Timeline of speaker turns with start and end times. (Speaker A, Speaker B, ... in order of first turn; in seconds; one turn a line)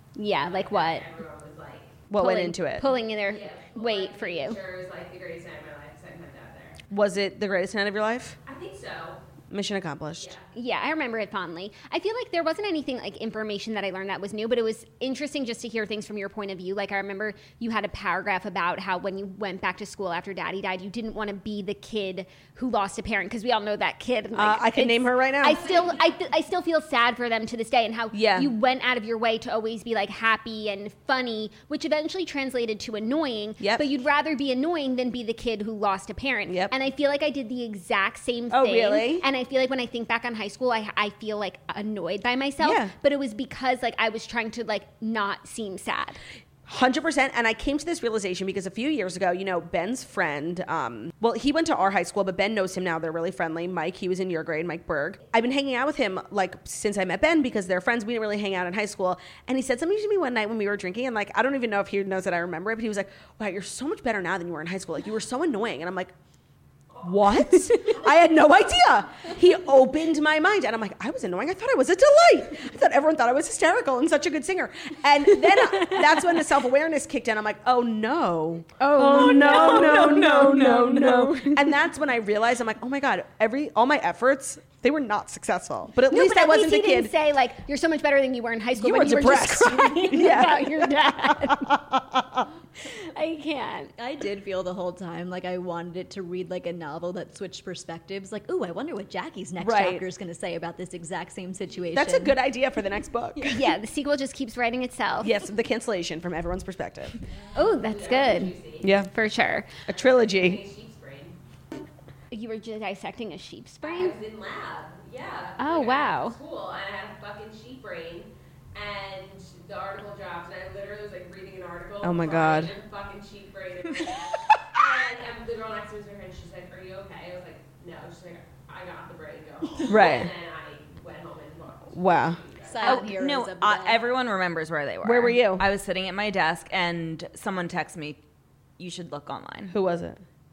Speaker A: 0.2-1.1
Speaker B: 0.4-2.1
Speaker C: 2.1-2.9
Speaker A: 2.1-4.6
Speaker B: 2.8-6.8
Speaker C: 6.9-8.4
Speaker B: 8.4-9.2
Speaker C: 9.5-10.3
Speaker B: 10.1-10.5
Speaker A: 10.5-46.2
Speaker C: 24.3-25.9
Speaker B: 25.6-26.0
Speaker C: 28.1-28.5
Speaker C: 33.6-33.9
Speaker C: 36.5-36.7
Speaker C: 38.5-39.3
Speaker C: 42.6-42.9
Speaker C: 46.7-66.1
Speaker C: 67.0-87.1
Speaker A: 75.5-76.2
Speaker A: 78.8-81.7
Speaker A: 86.1-91.7
Speaker C: 88.8-92.5
Speaker A: 93.0-93.9
Speaker D: 94.0-102.4
Speaker C: 99.6-100.0
Speaker C: 101.9-103.7
Speaker A: 103.5-105.4
Speaker C: 105.2-107.2
Speaker A: 107.5-109.7
Speaker B: 107.6-109.0
Speaker C: 108.8-109.1
Speaker C: 109.9-110.6
Speaker B: 109.9-111.3
Speaker A: 112.3-114.2
Speaker B: 113.8-133.0
Speaker A: 115.6-116.4
Speaker C: 122.0-122.8
Speaker C: 129.9-130.3
Speaker C: 131.9-132.4
Speaker D: 132.7-134.0
Speaker E: 132.8-138.2
Speaker C: 135.0-135.6
Speaker E: 138.8-139.7
Speaker C: 139.7-140.2